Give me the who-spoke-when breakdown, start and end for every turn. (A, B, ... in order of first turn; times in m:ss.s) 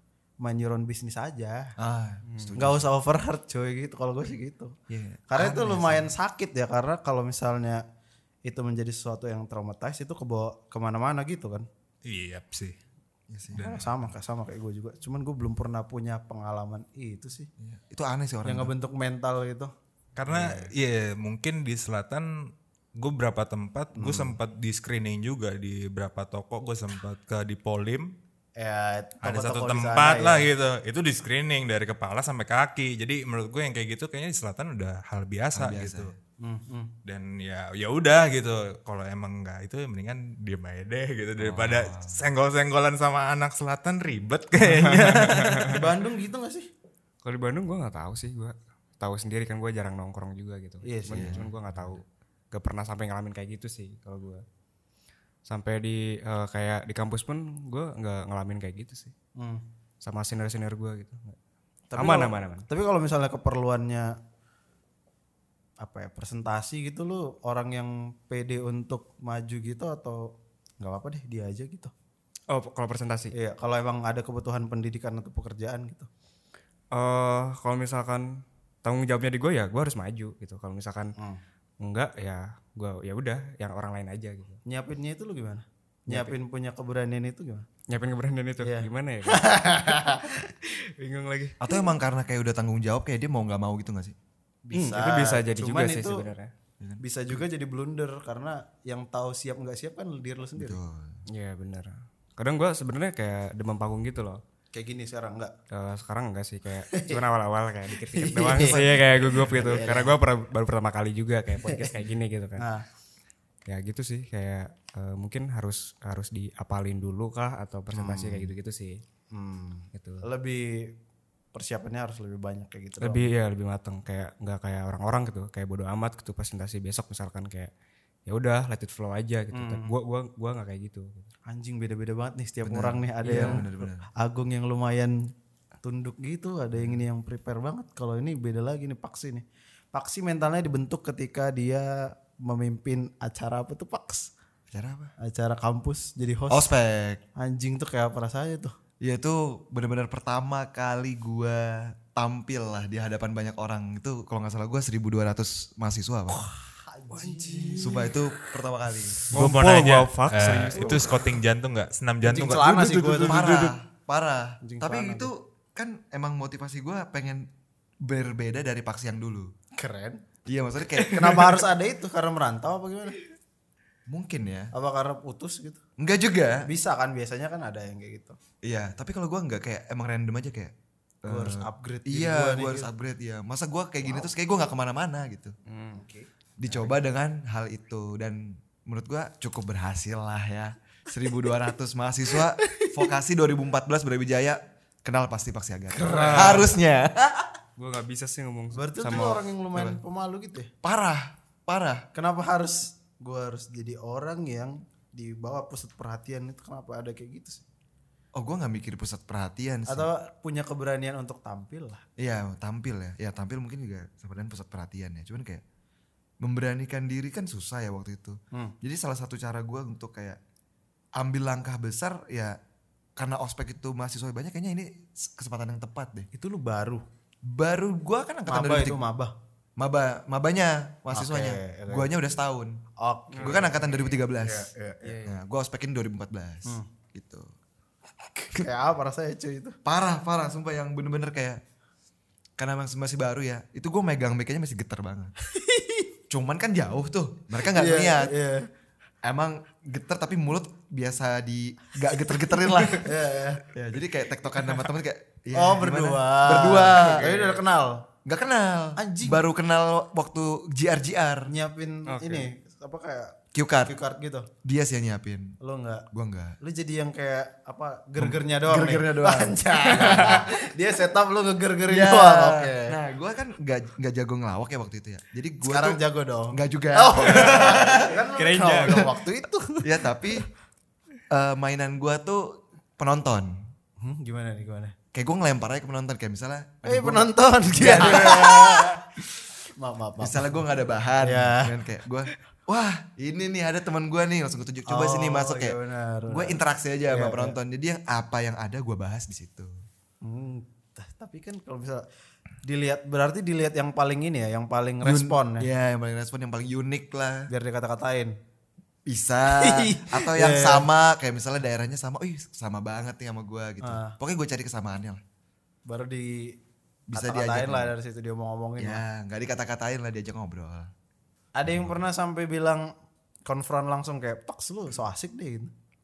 0:00.4-0:01.7 A
0:01.8-0:02.9 B
0:02.3-0:02.5 C
0:02.6-0:04.8 A
0:04.9-0:06.1 B
0:05.3-0:07.8 A
0:08.4-0:11.6 A
0:12.0-0:12.8 D
0:13.3-0:13.8 B
0:13.5-0:13.9 D
0:13.5-0:17.5 A
0:17.6-0:18.7 B
0:18.4-0:19.7 A
0:20.2-0:28.1 D
0:20.3-0:20.6 A
0:23.9-0:24.4 A
0:28.6-0:30.5 A
0:29.2-0:36.1 D
0:35.5-0:36.1 B
0:36.4-0:36.9 A
0:37.0-0:45.8 D
0:41.4-0:42.2 B
0:44.8-0:45.4 B
0:44.8-0:45.7 C
0:45.7-0:46.7 A
0:47.2-0:54.4 C
0:50.8-0:51.4 A
0:51.1-0:52.0 B
0:55.5-0:59.1 C
0:59.4-0:59.6 A
1:00.0-1:01.4 C
1:01.9-1:04.1 A
1:02.0-1:02.6 C
1:05.8-1:11.9 A
1:12.5-1:13.3 C
1:13.3-1:16.1 A
1:16.9-1:21.1 C
1:21.8-1:24.6 C
1:24.6-1:27.6 A
1:26.1-1:26.4 C
1:27.9-1:30.1 C
1:28.6-1:30.4 A
1:30.6-1:31.6 C
1:31.6-1:34.1 B
1:34.6-1:36.2 A
1:34.7-1:36.5 C
1:36.8-1:37.4 B
1:37.0-1:40.8 A
1:40.6-1:41.2 B
1:41.3-1:44.4 C
1:44.7-1:45.5 A
1:45.7-1:52.7 C
1:46.9-1:47.2 A
1:48.0-1:50.2 A
1:48.6-1:49.6 B
1:51.6-1:51.9 A
1:52.6-1:52.8 A
1:53.7-1:59.0 C
1:57.9-1:58.5 A
1:59.3-2:00.9 A
1:59.9-2:00.2 C
2:01.5-2:03.3 A
2:03.0-2:07.7 C
2:08.3-2:11.3 C
2:09.5-2:09.9 A
2:11.5-2:15.3 A
2:12.6-2:14.1 B
2:13.2-2:13.6 C
2:15.8-2:24.3 A
2:24.7-2:25.1 B
2:25.2-2:26.7 A
2:26.5-2:27.2 B
2:27.4-2:28.7 A
2:29.0-2:36.4 B
2:36.4-2:38.1 A
2:37.1-2:38.2 C
2:37.8-2:39.2 B
2:39.3-2:41.4 C
2:39.3-2:43.7 D
2:40.7-2:41.1 A
2:42.2-2:43.7 A
2:43.2-2:47.5 B
2:44.6-2:45.3 A
2:48.0-2:49.5 B
2:49.8-2:50.2 A
2:50.4-2:51.6 B
2:51.0-2:53.2 A
2:54.1-2:54.7 B
2:54.7-2:55.8 A
2:56.0-2:56.7 B
2:56.6-2:58.4 A
2:58.6-3:05.6 B
3:01.3-3:02.9 A
3:05.7-3:06.9 A
3:06.6-3:17.5 B
3:15.9-3:16.7 A
3:16.0-3:16.8 C
3:17.8-3:19.4 C
3:18.8-3:20.7 A
3:19.7-3:20.0 B
3:20.8-3:22.0 B
3:22.1-3:27.6 A
3:28.4-3:30.1 B
3:29.9-3:32.0 A
3:32.2-3:35.6 B
3:36.4-3:40.4 B
3:41.2-3:42.6 B
3:43.2-3:46.3 B
3:46.3-3:47.0 A
3:47.4-3:49.0 B
3:48.5-3:49.3 A
3:49.8-3:52.8 B
3:51.1-3:52.1 A
3:53.0-3:55.2 A
3:53.3-3:54.1 C
3:53.4-3:54.7 B
3:55.0-3:55.4 C
3:55.2-3:57.5 B
3:58.4-3:59.8 A
3:59.8-4:01.6 B
4:02.6-4:05.3 B
4:05.4-4:06.1 A
4:06.3-4:08.3 B
4:07.6-4:08.6 A
4:09.2-4:13.1 B
4:12.9-4:13.6 A
4:13.6-4:17.4 B
4:15.6-4:18.0 A
4:17.1-4:17.5 C
4:18.2-4:21.5 B
4:19.0-4:19.4 A
4:21.5-4:24.5 A
4:22.1-4:22.5 C
4:23.5-4:23.9 B
4:24.6-4:25.6 B
4:25.6-4:26.1 A
4:26.1-4:26.6 B
4:26.6-4:33.0 A
4:28.2-4:30.5 B
4:31.9-4:36.0 B
4:35.6-4:40.1 A
4:36.5-4:38.2 B
4:37.3-4:37.8 C
4:38.4-4:39.1 C
4:39.8-4:40.4 B
4:41.3-4:43.6 B
4:44.0-4:44.9 A
4:45.1-4:49.2 B
4:46.8-4:49.0 A
4:49.8-4:50.6 A
4:50.2-4:59.8 B
4:51.2-4:51.8 A
4:54.9-4:57.6 A
5:00.2-5:02.0 A
5:02.6-5:05.7 A
5:05.0-5:07.5 B
5:07.5-5:08.3 A
5:09.1-5:15.2 B
5:09.5-5:10.9 A
5:13.8-5:14.2 A
5:15.9-5:16.6 A
5:17.1-5:17.9 B
5:17.1-5:19.0 A
5:18.8-5:20.9 B
5:21.6-5:22.9 A
5:21.7-5:22.0 B
5:23.4-5:25.7 A